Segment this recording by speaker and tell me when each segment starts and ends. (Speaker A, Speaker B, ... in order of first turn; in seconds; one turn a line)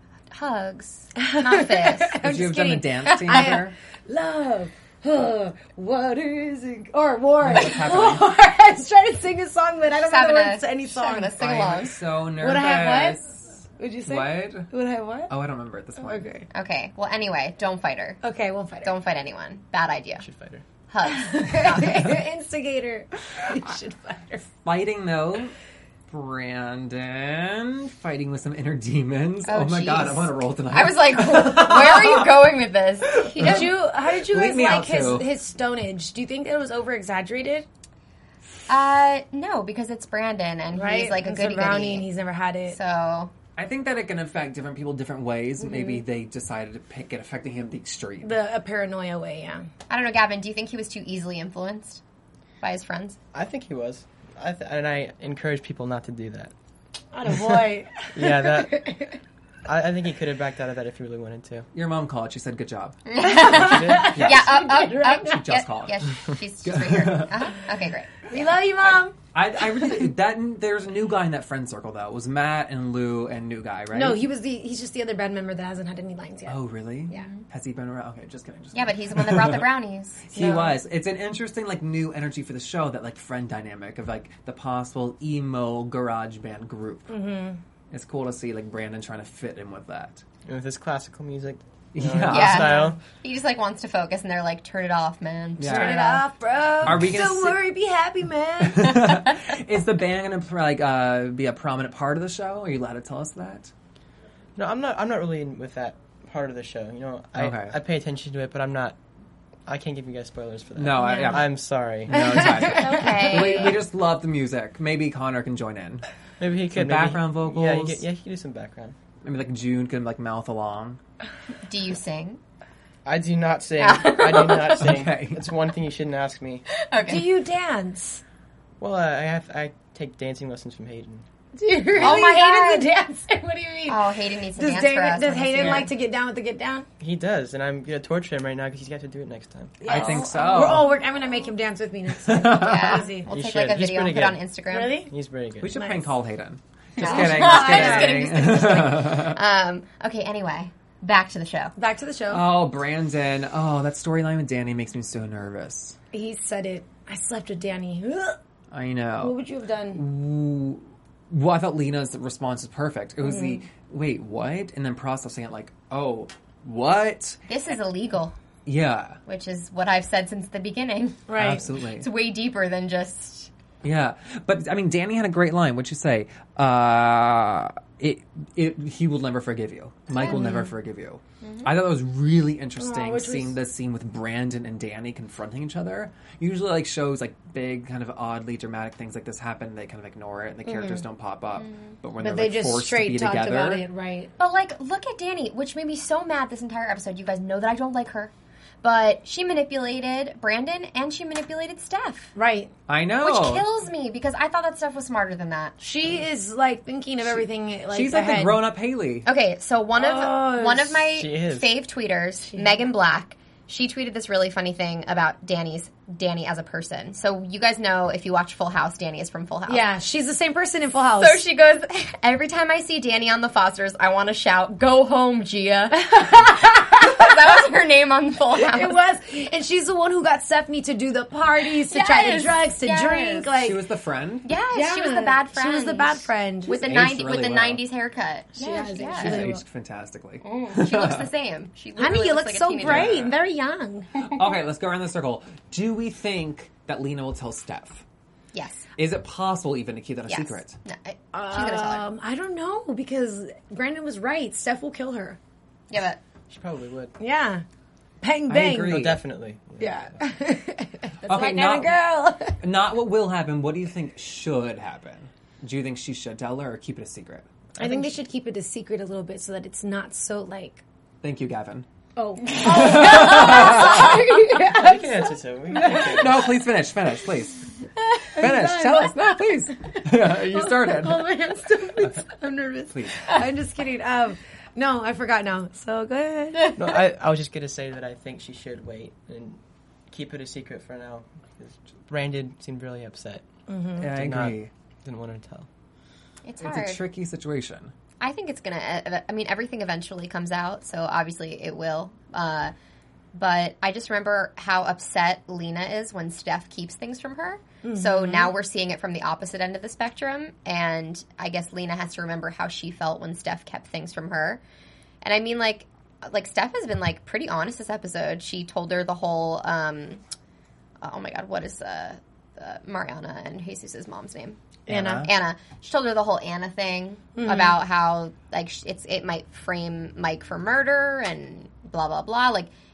Speaker A: 0.3-2.2
Speaker B: 1.2-11.4
Speaker C: 2.2-3.8
Speaker A: 3.1-3.5
Speaker C: 7.4-8.3
Speaker A: 10.0-12.0
Speaker C: 11.4-14.7
Speaker B: 12.4-13.2
Speaker B: 13.8-15.3
Speaker C: 15.3-16.2
Speaker B: 16.0-16.5
Speaker A: 16.5-18.2
Speaker B: 18.2-18.9
Speaker A: 18.8-20.2
Speaker D: 20.2-20.6
Speaker A: 20.9-22.2
Speaker B: 21.1-24.5
Speaker C: 24.5-25.5
Speaker C: 26.1-32.5
Speaker A: 29.5-33.7
Speaker C: 33.1-35.3
Speaker B: 33.2-37.7
Speaker A: 38.7-42.1
Speaker B: 40.7-42.8
Speaker A: 42.7-43.3
Speaker C: 43.6-48.4
Speaker B: 45.7-46.0
Speaker B: 48.2-49.7
Speaker A: 49.9-52.0
Speaker A: 52.6-53.2
Speaker D: 53.3-56.5
Speaker B: 57.1-59.2
Speaker D: 58.1-58.9
Speaker D: 59.6-61.7
Speaker C: 61.7-63.0
Speaker A: 63.1-68.5
Speaker B: 63.2-65.5
Speaker D: 63.5-64.2
Speaker C: 64.1-67.7
Speaker B: 68.3-69.2
Speaker C: 68.8-74.2
Speaker B: 73.9-77.3
Speaker C: 76.5-87.1
Speaker A: 77.1-77.4
Speaker A: 78.7-80.3
Speaker B: 80.3-80.8
Speaker B: 87.1-87.6
Speaker C: 87.9-90.2
Speaker D: 90.5-93.0
Speaker C: 91.9-92.8
Speaker A: 92.3-96.2
Speaker C: 95.6-96.2
Speaker B: 95.7-99.1
Speaker C: 96.8-97.6
Speaker C: 98.6-103.7
Speaker D: 104.6-109.0
Speaker C: 107.4-107.8
Speaker D: 109.7-112.5
Speaker C: 110.8-111.5
Speaker B: 111.0-111.4
Speaker C: 112.1-116.0
Speaker B: 112.1-113.7
Speaker A: 112.7-113.8
Speaker D: 116.4-119.0
Speaker C: 116.7-118.0
Speaker C: 119.2-121.0
Speaker A: 121.7-122.4
Speaker D: 123.0-126.6
Speaker A: 123.8-124.9
Speaker C: 124.8-125.5
Speaker A: 126.8-127.3
Speaker B: 127.1-128.2
Speaker D: 128.8-131.2
Speaker B: 131.6-136.9
Speaker A: 132.0-132.9
Speaker A: 133.9-135.9
Speaker D: 137.0-139.8
Speaker B: 139.8-143.3
Speaker C: 139.9-140.9
Speaker A: 139.9-140.8
Speaker C: 142.3-143.1
Speaker A: 142.5-145.0
Speaker D: 143.3-144.4
Speaker B: 144.7-145.1
Speaker D: 145.1-145.7
Speaker C: 145.6-149.4
Speaker B: 145.7-146.1
Speaker A: 147.0-151.7
Speaker B: 147.0-148.6
Speaker B: 151.8-152.5
Speaker C: 152.3-156.0
Speaker B: 156.1-158.4
Speaker C: 158.7-159.4
Speaker B: 159.2-160.0
Speaker C: 159.9-167.4
Speaker B: 163.2-163.6
Speaker A: 167.5-168.3
Speaker C: 168.7-169.2
Speaker A: 169.3-171.3
Speaker B: 171.3-171.7
Speaker C: 171.4-172.1
Speaker A: 171.9-173.5
Speaker C: 173.8-193.8
Speaker A: 180.2-180.6
Speaker B: 180.2-180.7
Speaker A: 181.4-181.7
Speaker B: 182.8-183.6
Speaker B: 190.7-191.1
Speaker A: 191.6-191.9
Speaker B: 192.2-194.3
Speaker A: 194.4-202.3
Speaker B: 202.3-202.7
Speaker C: 202.9-203.7
Speaker A: 203.2-205.8
Speaker B: 205.8-208.6
Speaker C: 207.4-209.3
Speaker A: 209.3-219.9
Speaker B: 210.0-211.0
Speaker D: 211.1-211.7
Speaker B: 219.7-221.4
Speaker A: 221.2-229.0
Speaker B: 226.0-227.3
Speaker B: 228.6-233.8
Speaker A: 231.9-233.5
Speaker C: 233.6-234.5
Speaker A: 234.4-239.4
Speaker B: 234.7-236.8
Speaker C: 236.8-237.8
Speaker B: 238.6-239.6
Speaker C: 239.1-241.3
Speaker A: 240.4-243.3
Speaker B: 242.0-244.1
Speaker C: 242.8-243.3
Speaker C: 244.2-248.0
Speaker A: 248.5-248.9
Speaker C: 249.0-250.8
Speaker A: 250.3-252.1
Speaker B: 251.3-255.4
Speaker A: 255.9-256.2
Speaker D: 256.5-257.1
Speaker B: 257.2-257.6
Speaker B: 258.2-259.1
Speaker C: 258.5-259.2
Speaker D: 258.9-260.2
Speaker B: 259.8-262.6
Speaker C: 261.2-261.9
Speaker C: 262.6-267.5
Speaker D: 267.8-268.1
Speaker B: 267.8-270.8
Speaker C: 271.2-271.9
Speaker B: 272.2-276.3
Speaker C: 272.5-274.2
Speaker D: 274.6-276.5
Speaker C: 275.8-277.6
Speaker B: 278.3-286.7
Speaker C: 278.4-281.4
Speaker C: 282.9-283.4
Speaker D: 286.8-289.6
Speaker D: 290.1-293.4
Speaker B: 293.7-294.1
Speaker C: 294.0-294.7
Speaker D: 294.0-295.7
Speaker A: 296.4-297.0
Speaker C: 296.6-297.9
Speaker A: 298.2-302.7
Speaker A: 303.3-314.6
Speaker B: 307.8-308.5
Speaker A: 315.2-320.2
Speaker A: 321.0-324.6
Speaker B: 324.9-325.3
Speaker C: 324.9-325.3
Speaker A: 325.2-332.7
Speaker B: 327.4-327.8